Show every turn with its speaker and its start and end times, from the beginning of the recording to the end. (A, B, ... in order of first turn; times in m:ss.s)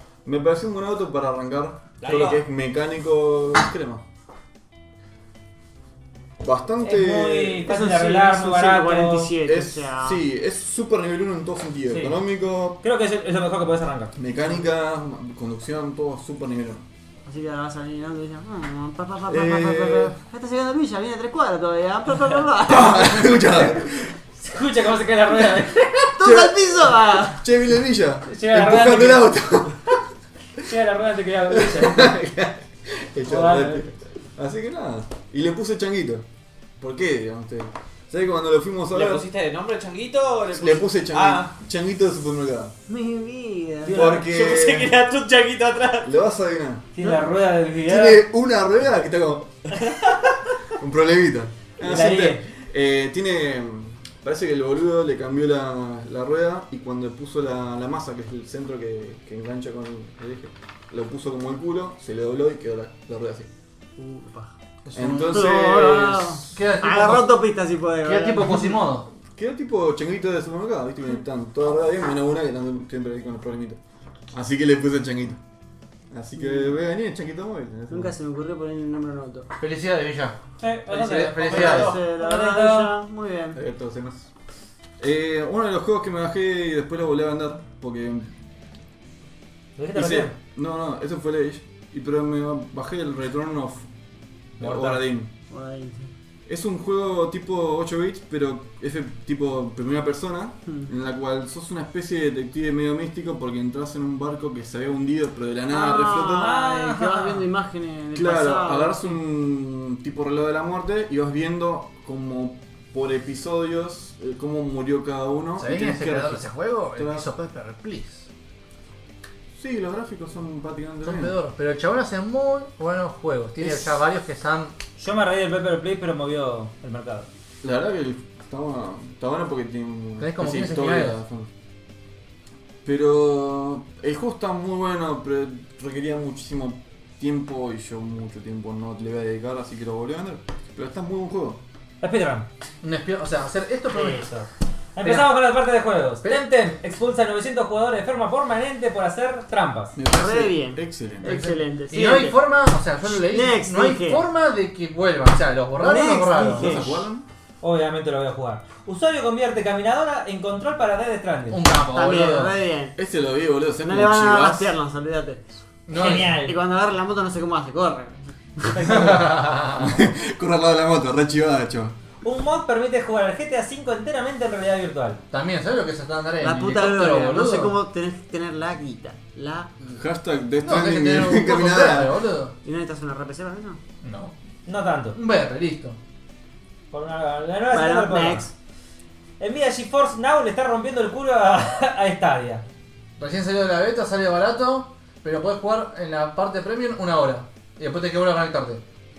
0:00.2-0:04.0 A
0:02.0-0:02.4 B
0:06.4-0:07.7 A
0:06.8-0:09.3 C
0:07.6-0:10.2 D
0:09.4-0:12.8 A
0:11.9-0:12.2 C
0:12.8-0:14.1 C
0:14.2-0:16.8 A
0:17.2-0:23.7 D
0:19.3-0:20.2 A
0:22.7-0:24.2 A
0:24.4-0:26.2 C
0:26.2-0:27.4 D
0:26.2-0:30.0 A
0:28.3-0:29.3 C
0:30.6-0:32.2 C
0:31.5-0:36.2 A
0:33.3-0:33.9 C
0:36.8-0:39.2 A
0:38.9-0:41.5 B
0:40.5-0:42.7 A
0:42.9-0:44.0 D
0:43.8-0:44.3 C
0:43.9-0:45.0 A
0:44.1-0:46.1 B
0:46.0-0:46.9 A
0:47.0-0:48.2 C
0:47.8-0:49.7 A
0:50.8-1:03.5 A
0:51.8-0:52.4 C
1:04.0-1:08.8 D
1:04.9-1:05.4 E
1:04.9-1:06.5 A
1:06.5-1:07.3 E
1:08.0-1:09.1 E
1:09.2-1:13.8 A
1:14.3-1:15.4 A
1:16.1-1:18.1 A
1:17.9-1:19.5 D
1:19.6-1:22.0 E
1:20.6-1:22.9 C
1:21.3-1:22.0 B
1:21.5-1:23.6 D
1:23.6-1:24.3 A
1:25.0-1:28.3 A
1:29.8-1:30.4 C
1:30.0-1:33.9 A
1:34.6-1:35.3 A
1:34.6-1:35.0 C
1:35.5-1:36.1 D
1:36.5-1:46.5 A
1:45.7-1:49.2 D
1:46.2-1:47.5 C
1:48.1-1:57.3 A
1:55.6-1:58.3 E
1:59.6-2:01.4 A
2:01.0-2:04.8 E
2:03.6-2:03.9 A
2:05.0-2:07.3 C
2:07.6-2:11.5 A
2:10.2-2:11.2 E
2:12.8-2:21.6 A
2:22.0-2:22.5 C
2:22.8-2:24.3 E
2:23.9-2:30.0 C
2:25.0-2:25.4 E
2:30.0-2:31.3 A
2:30.1-2:32.4 D
2:31.2-2:36.9 E
2:33.1-2:34.2 D
2:35.8-2:37.0 D
2:36.4-2:37.2 A
2:37.6-2:41.6 C
2:41.5-2:42.6 E
2:41.9-2:43.0 D
2:43.0-2:44.7 A
2:43.8-2:45.4 D
2:45.9-2:46.4 E
2:45.9-2:46.6 C
2:46.1-2:48.8 D
2:48.7-2:49.1 C
2:48.8-2:50.0 E
2:48.8-2:52.0 A
2:52.2-2:55.2 C
2:55.3-2:57.8 E
2:56.4-2:59.7 D
2:59.9-3:02.2 A
3:00.6-3:02.5 E
3:02.6-3:03.8 D
3:04.0-3:04.3 E
3:04.7-3:05.2 C
3:05.2-3:06.0 E
3:06.9-3:08.5 C
3:07.7-3:08.5 D
3:09.4-3:12.6 C
3:13.2-3:18.8 E